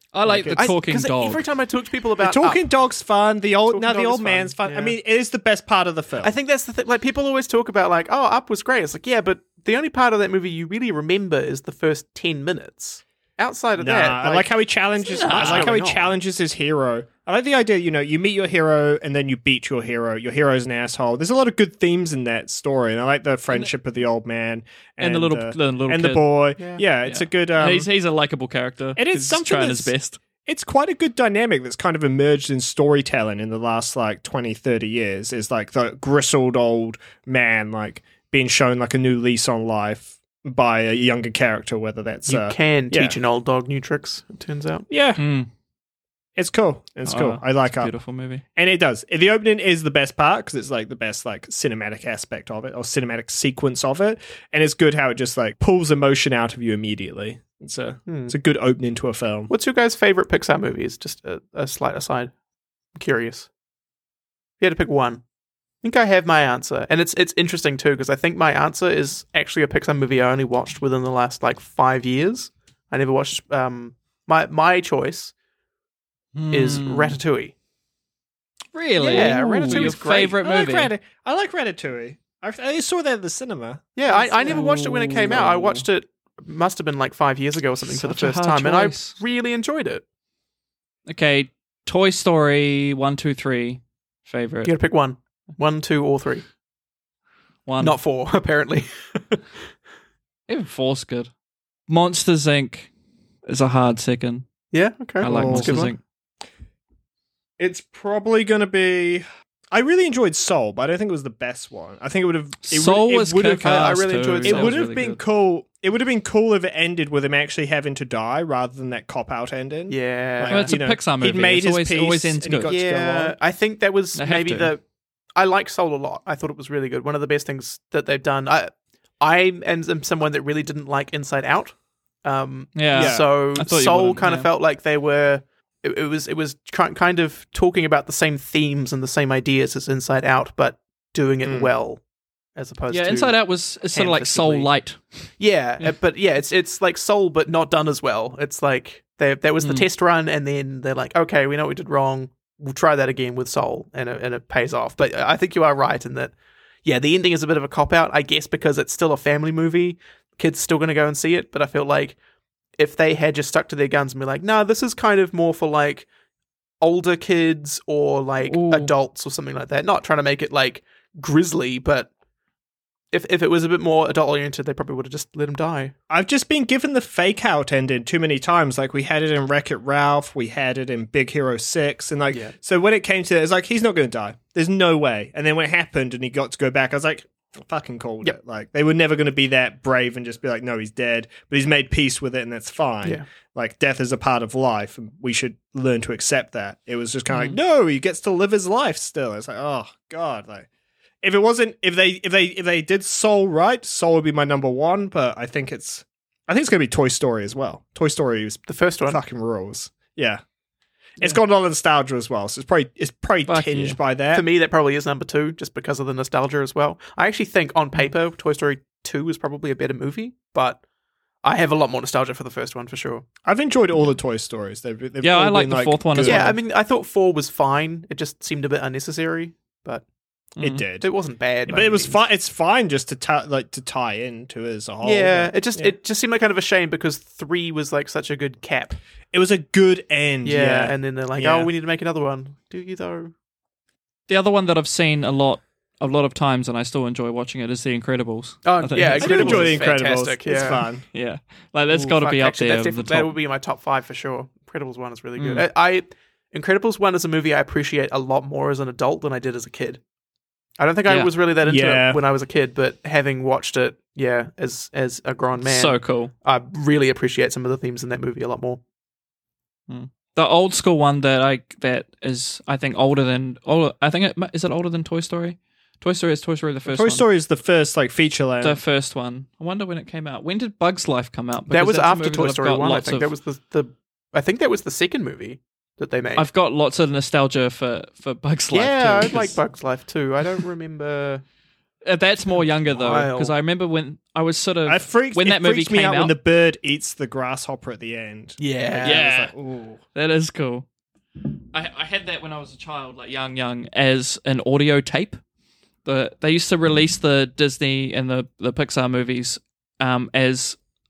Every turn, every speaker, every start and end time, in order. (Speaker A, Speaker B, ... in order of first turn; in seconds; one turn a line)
Speaker A: 0.1-1.4
Speaker B: 0.2-0.6
Speaker C: 0.5-2.6
Speaker B: 2.2-6.3
Speaker C: 3.7-5.0
Speaker C: 6.2-14.6
Speaker B: 13.8-27.9
Speaker C: 15.1-16.1
Speaker A: 15.1-15.7
Speaker A: 25.0-26.3
Speaker C: 26.6-26.8
Speaker A: 27.1-30.2
Speaker B: 29.0-43.2
Speaker C: 42.3-44.9
Speaker B: 44.9-45.2
Speaker A: 45.2-45.5
Speaker B: 46.4-47.9
Speaker A: 47.1-48.4
Speaker B: 48.6-59.5
Speaker C: 58.1-58.3
Speaker C: 59.5-62.3
Speaker C: 63.0-63.5
Speaker C: 64.6-65.2
Speaker C: 65.8-75.3
Speaker A: 76.3-77.2
Speaker C: 76.5-77.5
Speaker A: 78.7-80.9
Speaker B: 79.0-84.7
Speaker C: 79.0-80.4
Speaker C: 84.0-90.0
Speaker A: 84.4-85.8
Speaker A: 87.9-89.2
Speaker A: 91.1-94.7
Speaker C: 94.6-96.5
Speaker A: 97.7-98.0
Speaker C: 97.8-99.4
Speaker A: 100.5-101.3
Speaker A: 101.9-102.9
Speaker A: 103.5-104.5
Speaker C: 104.7-106.0
Speaker A: 105.2-106.0
Speaker B: 105.2-105.9
Speaker B: 107.6-123.3
Speaker A: 112.6-115.2
Speaker C: 114.1-114.8
Speaker C: 119.9-120.7
Speaker A: 120.5-122.7
Speaker C: 122.7-124.8
Speaker A: 124.2-124.7
Speaker C: 125.4-142.0
Speaker A: 132.8-134.5
Speaker B: 132.9-133.3
Speaker B: 141.4-141.7
Speaker C: 142.6-144.7
Speaker A: 142.9-145.0
Speaker C: 145.4-156.3
Speaker C: 156.8-162.2
Speaker C: 162.8-166.1
Speaker C: 166.8-172.1
Speaker A: 168.5-168.9
Speaker C: 173.1-175.9
Speaker B: 176.1-200.7
Speaker A: 197.3-197.6
Speaker B: 201.2-210.4
Speaker C: 208.7-209.2
Speaker B: 211.2-214.4
Speaker A: 213.5-214.0
Speaker C: 214.3-220.8
Speaker C: 221.4-223.2
Speaker B: 223.4-226.6
Speaker A: 225.2-226.6
Speaker C: 226.2-230.1
Speaker A: 230.6-230.8
Speaker B: 230.6-231.1
Speaker C: 231.0-232.2
Speaker B: 231.7-235.9
Speaker C: 235.0-239.0
Speaker B: 239.3-241.7
Speaker C: 240.4-243.3
Speaker A: 244.3-249.8
Speaker C: 248.7-250.8
Speaker B: 249.2-251.1
Speaker A: 251.1-253.3
Speaker C: 252.1-260.0
Speaker A: 255.4-255.7
Speaker C: 260.8-268.8
Speaker A: 261.1-261.3
Speaker B: 261.6-262.2
Speaker A: 265.6-266.3
Speaker A: 269.9-277.2
Speaker B: 276.9-278.8
Speaker A: 278.6-283.3
Speaker C: 281.7-286.5
Speaker A: 286.4-289.6
Speaker C: 288.7-291.4
Speaker A: 292.0-296.3
Speaker C: 292.6-293.5
Speaker B: 294.9-300.0
Speaker C: 298.6-299.3
Speaker A: 299.0-299.5
Speaker A: 300.1-300.9
Speaker A: 301.7-305.4
Speaker A: 306.1-310.8